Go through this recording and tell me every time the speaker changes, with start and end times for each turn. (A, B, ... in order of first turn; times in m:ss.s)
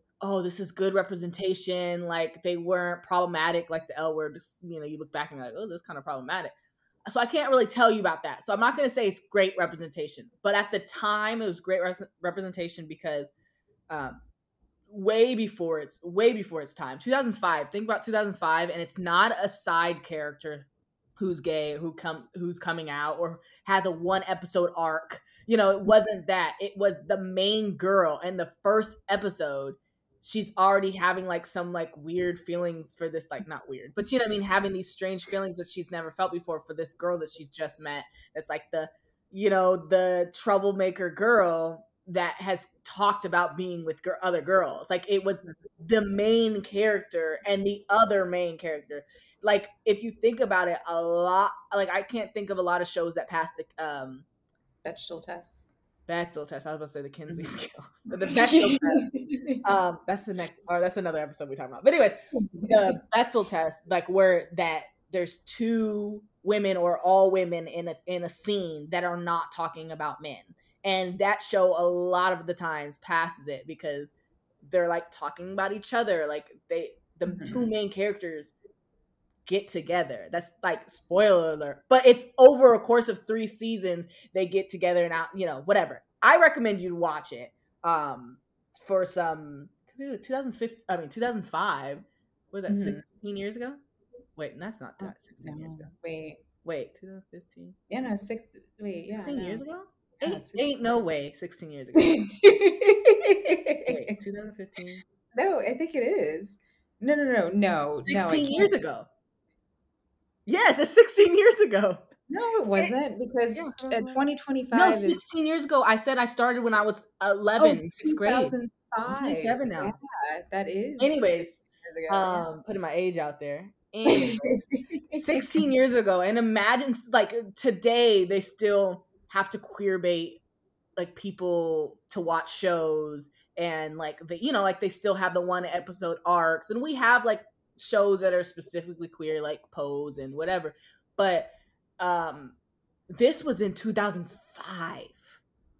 0:00.2-0:06.5 A
0:07.0-0:13.3 A
0:13.9-0:14.2 A
0:14.9-0:54.2 A
0:54.8-0:55.7 B
0:56.1-1:18.5 A
0:58.2-0:59.6 B
1:02.5-1:02.8 B
1:17.2-1:17.7 B
1:19.4-1:33.8 A
1:32.7-1:33.0 B
1:34.4-1:35.9 A
1:35.0-1:36.4 B
1:36.6-1:37.8 A
1:37.9-1:39.6 B
1:39.0-1:42.2 A
1:40.2-1:41.0 B
1:42.0-1:44.2 B
1:43.8-1:45.0 A
1:45.3-1:48.7 B
1:48.0-1:49.1 A
1:50.4-1:52.1 A
1:52.3-1:55.2 B
1:53.5-1:58.5 A
1:57.6-2:02.5 B
1:59.1-1:59.9 A
2:01.0-2:01.5 A
2:02.1-2:04.6 A
2:04.0-2:05.6 B
2:05.1-2:10.4 A
2:11.0-2:22.6 A
2:23.1-2:25.4 A